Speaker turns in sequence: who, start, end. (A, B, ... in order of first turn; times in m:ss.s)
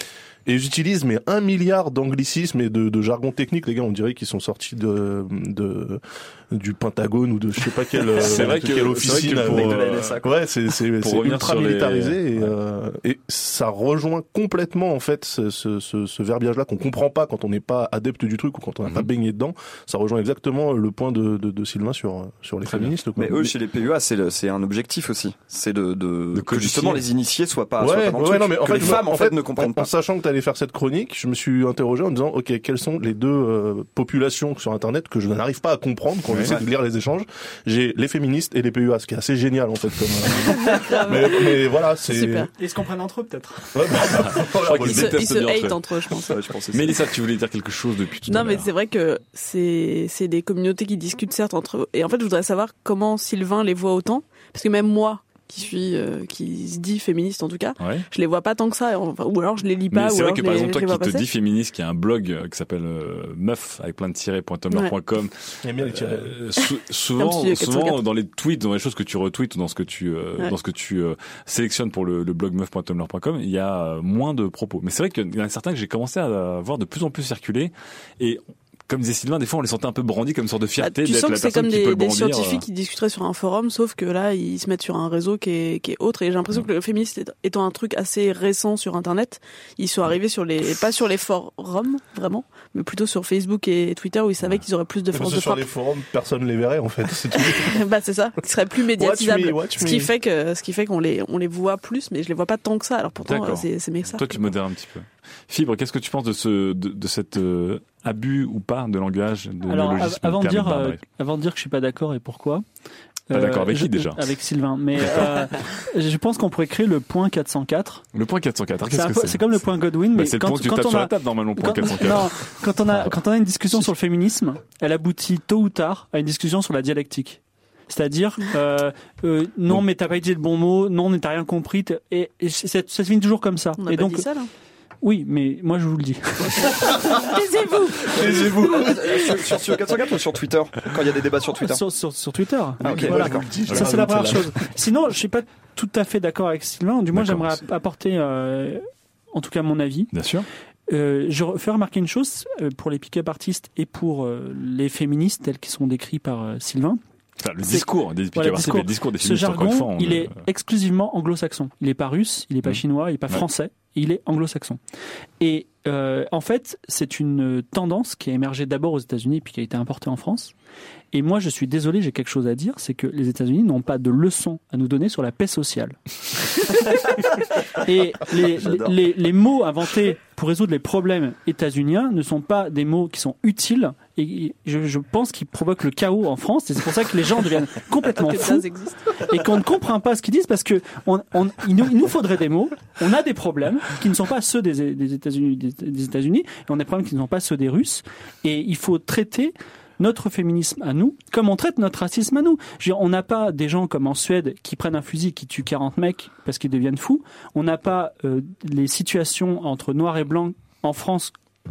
0:00.4-0:23.5 A
0:08.1-0:10.2 B
0:09.1-0:10.3 C
0:11.0-0:12.5 B
0:22.7-0:23.0 B
0:23.2-0:29.9 C
0:26.3-0:27.0 B
0:27.8-0:42.5 A
0:36.3-0:36.6 B
0:40.5-0:42.5 D
0:42.6-0:43.8 E
0:43.7-0:45.2 A
0:44.0-0:45.8 B
0:44.8-0:46.4 D
0:46.3-0:47.1 C
0:46.7-0:48.7 B
0:48.3-1:01.2 D
0:57.8-0:58.0 B
0:59.9-1:22.6 B
1:05.6-1:06.4 A
1:07.2-1:08.0 D
1:20.8-1:35.7 D
1:35.1-1:37.8 A
1:37.3-1:44.5 D
1:39.0-1:40.1 A
1:43.2-1:51.0 B
1:49.6-1:52.6 E
1:53.3-1:58.0 E
1:53.3-1:54.3 B
1:55.0-1:55.3 B
1:58.1-1:59.4 B
1:58.8-2:14.3 E
2:00.1-2:03.1 B
2:13.8-2:14.5 D
2:15.0-2:17.0 E
2:16.6-2:18.5 D
2:18.1-2:19.6 A
2:18.2-2:21.8 C
2:21.6-2:30.1 E
2:22.8-2:23.5 C
2:22.8-2:24.6 A
2:27.1-2:27.6 B
2:30.1-2:30.5 B
2:30.9-2:37.0 E
2:37.4-2:40.4 B
2:37.6-2:44.8 E
2:42.6-2:43.4 B
2:45.4-2:50.5 E
2:51.1-2:56.0 E
2:57.8-3:08.6 E
2:58.6-2:59.0 C
3:08.2-3:09.3 D
3:09.2-3:31.3 E